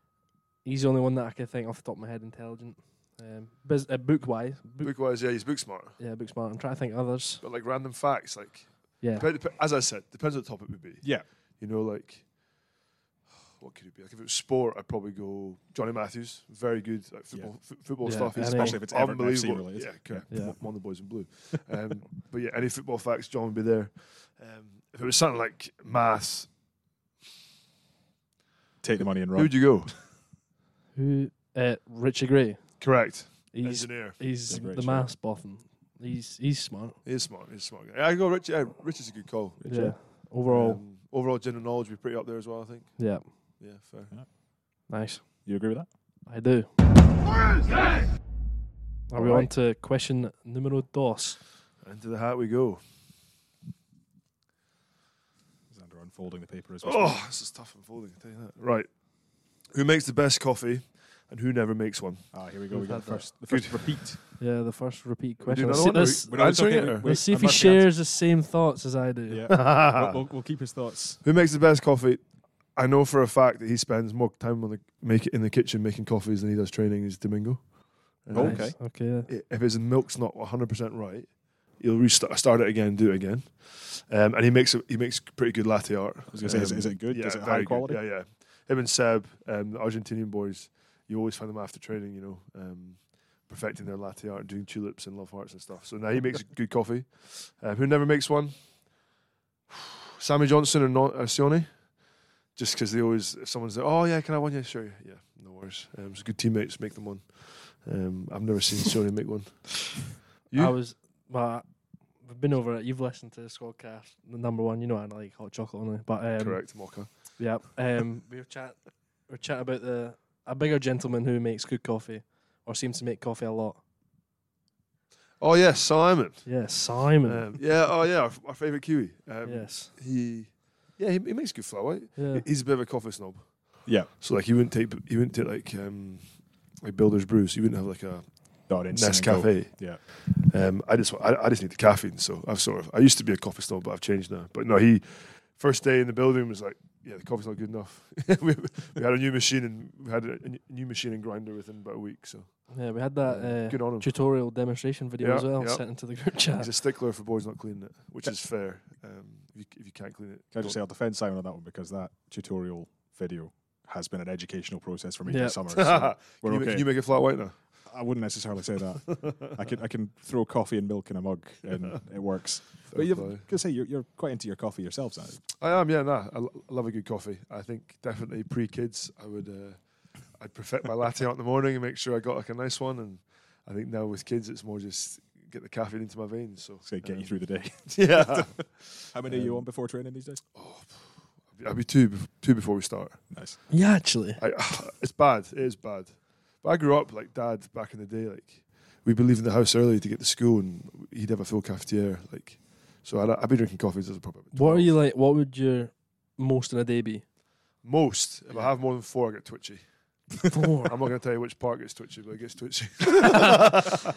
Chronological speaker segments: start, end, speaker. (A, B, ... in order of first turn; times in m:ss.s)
0:00.6-0:05.2 A
0:04.8-0:06.0 B
0:06.0-0:07.4 A
0:07.4-0:12.7 B
0:09.0-0:09.3 A
0:11.0-0:11.3 C
0:13.5-0:26.6 B
0:17.3-0:21.3 C
0:18.0-0:18.8 A
0:20.3-0:20.6 A
0:28.8-0:29.9 C
0:29.2-0:30.1 B
0:30.9-0:33.0 A
0:32.8-0:34.3 B
0:33.5-0:37.0 A
0:34.4-0:35.1 C
0:37.0-0:44.1 B
0:39.6-0:40.0 C
0:39.7-0:40.8 A
0:43.0-0:43.3 A
0:44.9-0:45.4 A
0:45.4-0:45.9 C
0:46.2-0:46.7 A
0:49.1-0:51.4 A
0:49.2-0:49.5 C
0:51.8-0:52.8 B
0:55.7-0:57.2 C
0:56.8-1:04.4 B
1:02.3-1:04.2 C
1:02.7-1:03.2 A
1:04.4-1:09.6 A
1:05.4-1:07.2 B
1:06.0-1:07.9 C
1:09.3-1:11.2 C
1:09.5-1:10.2 B
1:11.2-1:39.0 B
1:18.3-1:18.8 C
1:18.3-1:19.3 A
1:26.3-1:28.0 C
1:39.7-1:50.8 B
1:50.5-2:03.8 A
1:56.4-1:57.4 B
2:05.4-2:34.3 B
2:06.4-2:07.5 A
2:09.4-2:09.9 A
2:12.2-2:12.5 A
2:18.7-2:20.0 C
2:32.7-2:36.7 A
2:35.2-2:40.8 B
2:40.5-2:55.5 C
2:45.2-2:45.6 A
2:45.7-2:47.6 B
2:51.7-2:53.5 B
2:55.6-3:09.7 B
3:06.8-3:10.4 C
3:10.5-3:13.7 B
3:13.3-3:13.6 C
3:13.7-3:14.4 A
3:14.4-3:25.0 B
3:24.5-3:27.2 A
3:27.8-3:34.0 B
3:30.5-3:30.9 A